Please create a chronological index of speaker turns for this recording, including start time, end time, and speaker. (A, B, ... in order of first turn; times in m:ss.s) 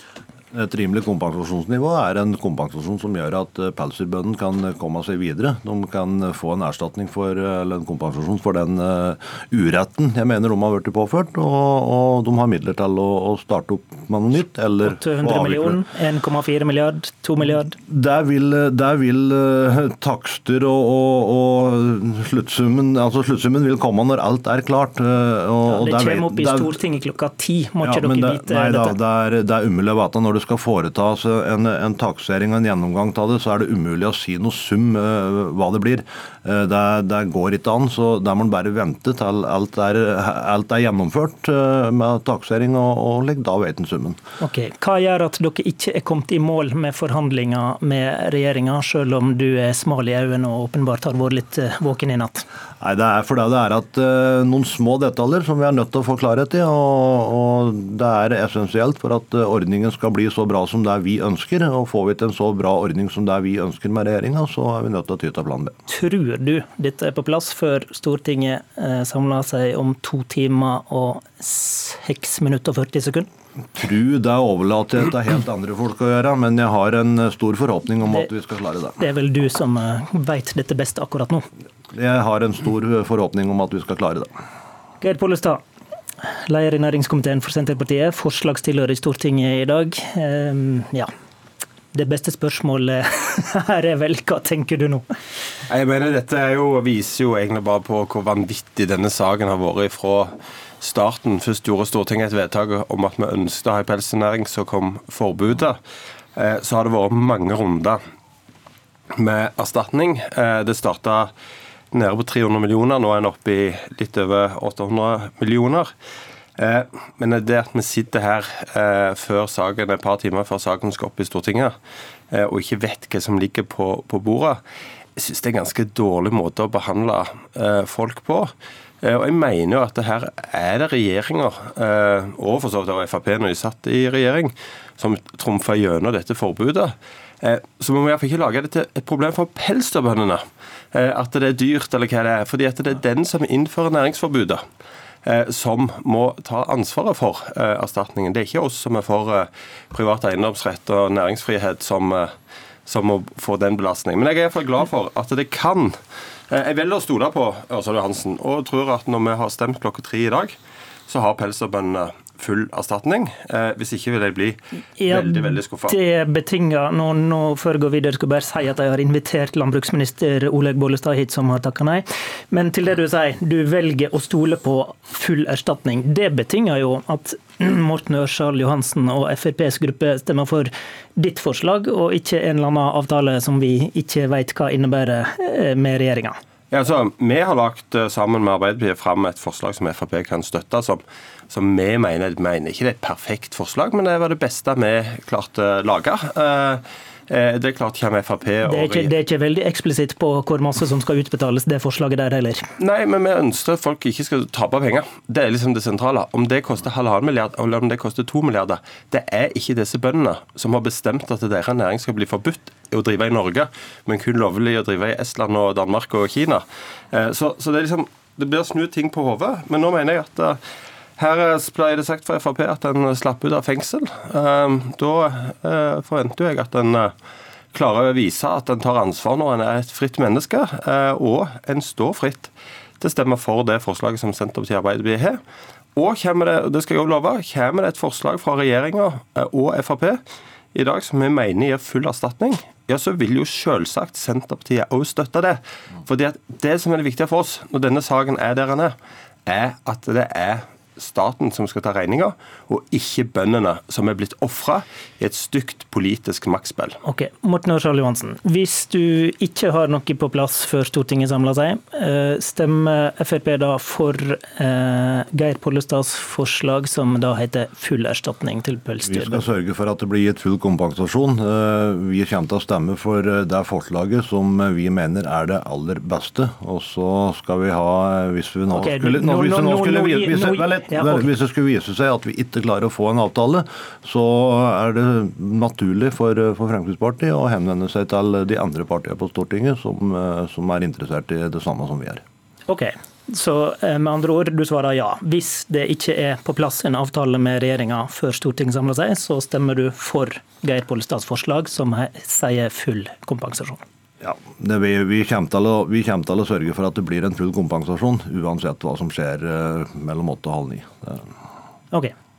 0:00.5-0:15.8 A
0:14.8-0:17.8 B
0:17.9-0:26.8 A
0:25.7-0:29.0 B
0:27.8-0:44.2 A
0:44.4-0:52.5 B
0:52.8-1:05.7 A
1:05.9-1:13.3 B
1:13.8-1:19.0 A
1:19.0-1:21.5 B
1:21.9-1:24.3 A
1:25.0-1:25.6 B
1:26.2-1:31.1 B
1:31.9-1:35.0 B
1:35.7-1:45.8 C
1:46.4-1:48.0 C
1:49.2-1:51.3 C
1:51.9-1:55.9 C
1:56.6-2:01.8 C
2:02.3-2:04.6 C
2:05.2-2:24.6 C
2:25.2-2:32.3 C
2:32.9-2:36.0 C
2:36.5-2:40.6 C
2:41.1-2:46.0 C
2:45.0-3:06.4 B
3:06.7-3:19.1 C
3:18.6-3:22.7 B
3:22.8-3:40.6 C
3:41.2-3:47.1 C
3:47.7-3:55.4 C
3:56.0-4:00.2 C
4:00.7-4:09.0 C
4:09.5-4:17.0 C
4:17.0-4:29.4 B
4:29.0-4:52.2 A
4:38.7-4:41.3 B
4:52.7-5:03.8 B
5:04.2-5:11.2 A